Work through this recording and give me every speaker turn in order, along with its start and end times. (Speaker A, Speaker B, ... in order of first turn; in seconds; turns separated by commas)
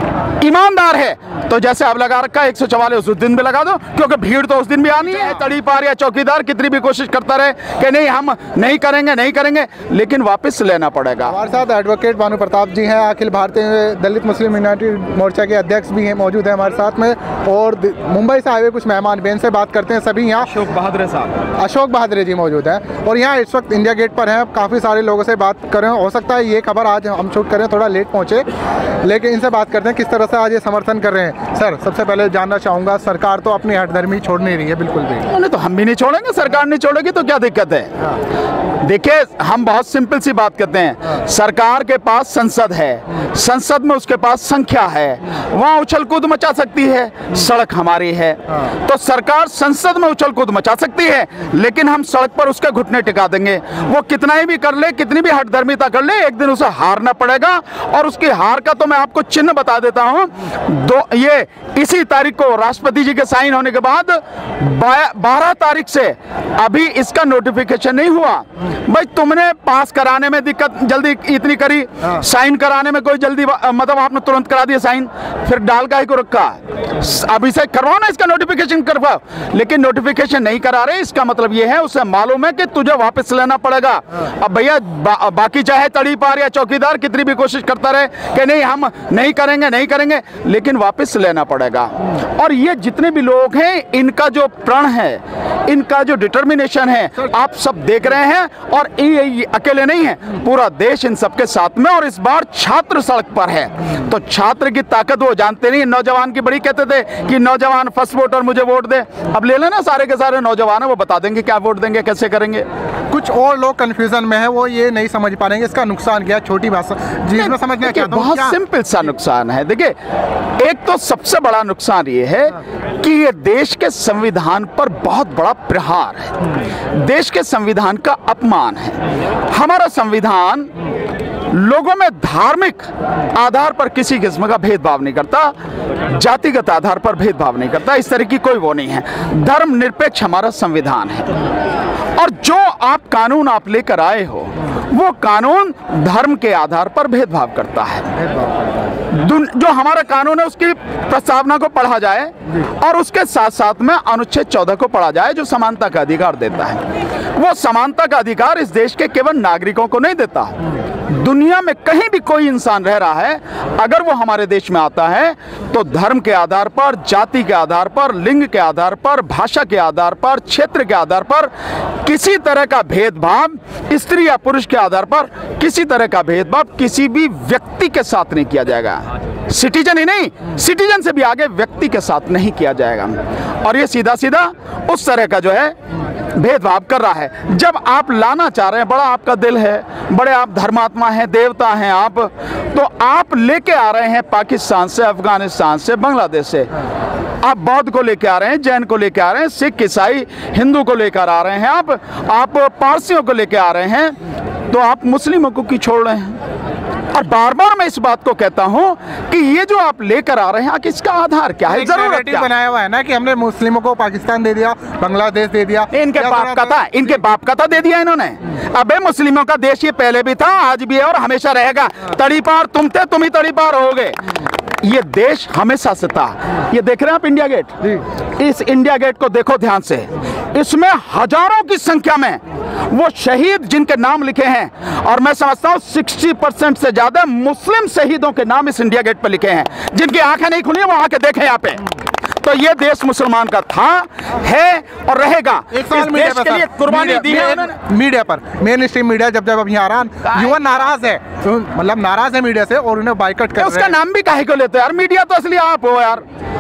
Speaker A: 0.4-11.4, Speaker B: 11.2-20.5, Speaker A: 20.4-21.4, Speaker B: 21.6-28.4, Speaker B: 29.0-35.3, Speaker A: 35.3-38.1, Speaker A: 38.8-112.7, Speaker B: 113.1-118.6, Speaker A: 117.4-120.0, Speaker A: 120.6-130.7, Speaker A: 131.5-135.6, Speaker A: 136.1-141.3, Speaker A: 142.2-148.1, Speaker A: 149.1-171.5, Speaker A: 172.0-185.8, Speaker A: 186.3-196.7, Speaker A: 197.4-204.2, Speaker A: 204.7-206.4, Speaker A: 207.1-212.5, Speaker B: 211.7-216.8, Speaker A: 215.9-241.8, Speaker A: 242.4-247.8, Speaker B: 245.7-254.0, Speaker A: 253.6-256.2